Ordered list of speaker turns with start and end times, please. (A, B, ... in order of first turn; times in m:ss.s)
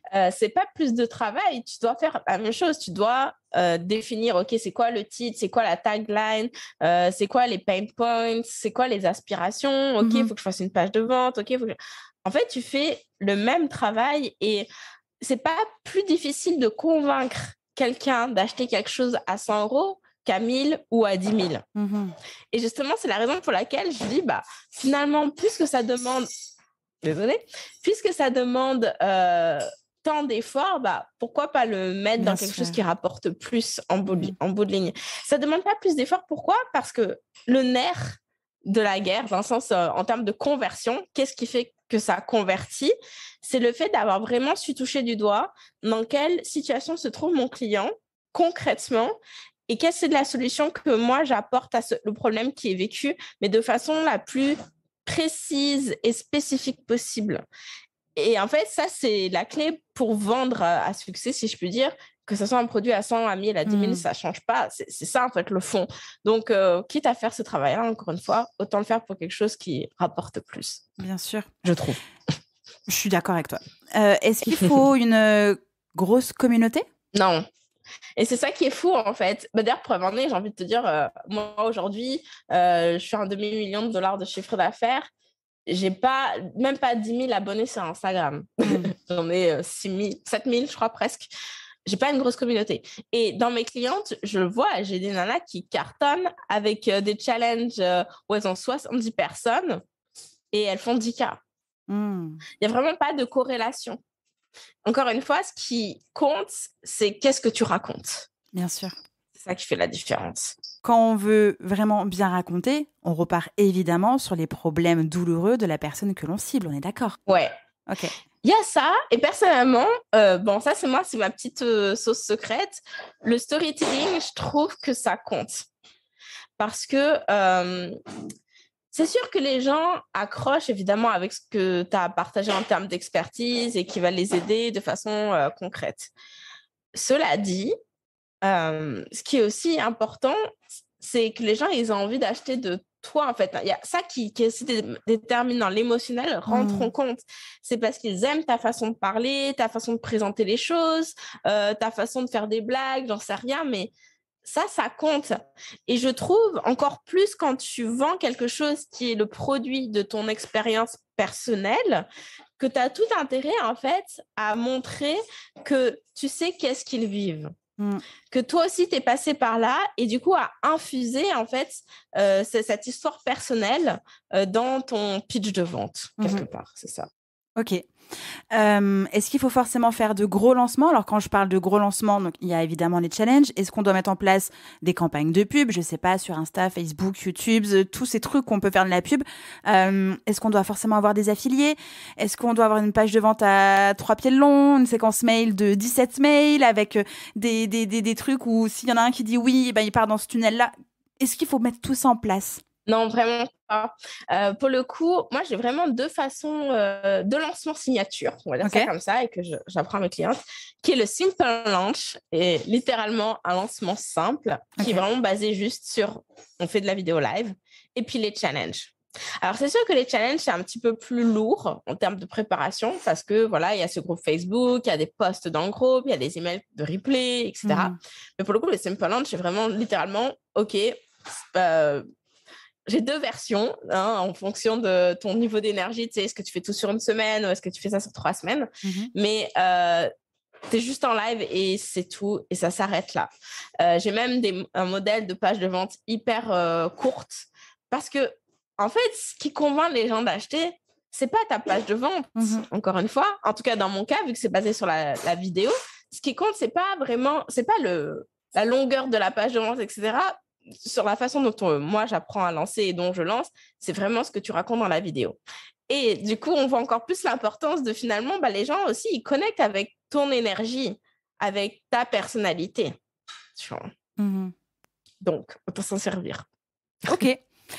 0:00.1-0:14.7 A
0:10.0-0:10.3 B
0:15.2-0:21.6 A
0:21.8-0:22.2 B
0:22.5-0:26.3 A
0:27.0-0:57.4 A
0:32.2-0:32.8 B
0:34.1-0:34.4 B
0:58.2-1:10.9 A
1:03.7-1:04.1 B
1:11.0-1:11.5 B
1:11.6-1:12.0 A
1:12.9-1:16.9 B
1:14.5-1:14.8 A
1:17.1-1:17.4 A
1:18.2-1:25.1 A
1:25.7-1:31.3 A
1:28.6-1:28.9 B
1:31.9-1:39.8 A
1:40.5-1:41.4 A
1:41.9-1:42.4 B
1:42.6-1:44.0 A
1:44.8-1:48.3 A
1:48.5-1:49.0 B
1:49.4-1:50.6 A
1:50.8-1:57.2 B
1:57.3-1:57.5 A
1:57.9-1:58.2 B
1:58.4-2:05.7 A
2:06.6-2:08.0 A
2:08.9-2:16.1 A
2:16.9-2:17.7 A
2:18.4-2:20.4 A
2:21.0-2:33.9 A
2:26.5-2:26.9 B
2:34.4-2:35.4 A
2:35.9-2:42.1 A
2:42.6-2:47.5 A
2:47.8-2:48.0 B
2:48.3-2:57.1 A
2:56.2-2:56.5 B
2:57.6-2:57.9 B
2:58.5-3:22.6 B
3:22.9-3:52.0 A
3:28.6-3:28.9 B
3:47.6-3:48.0 B
3:52.9-4:00.1 A
3:58.8-3:59.1 B
4:00.7-4:03.3 A
4:03.8-4:33.0 A
4:12.4-4:12.7 B
4:33.6-4:33.9 A
4:34.2-4:34.5 B
4:35.2-4:36.4 A
4:37.0-4:37.4 B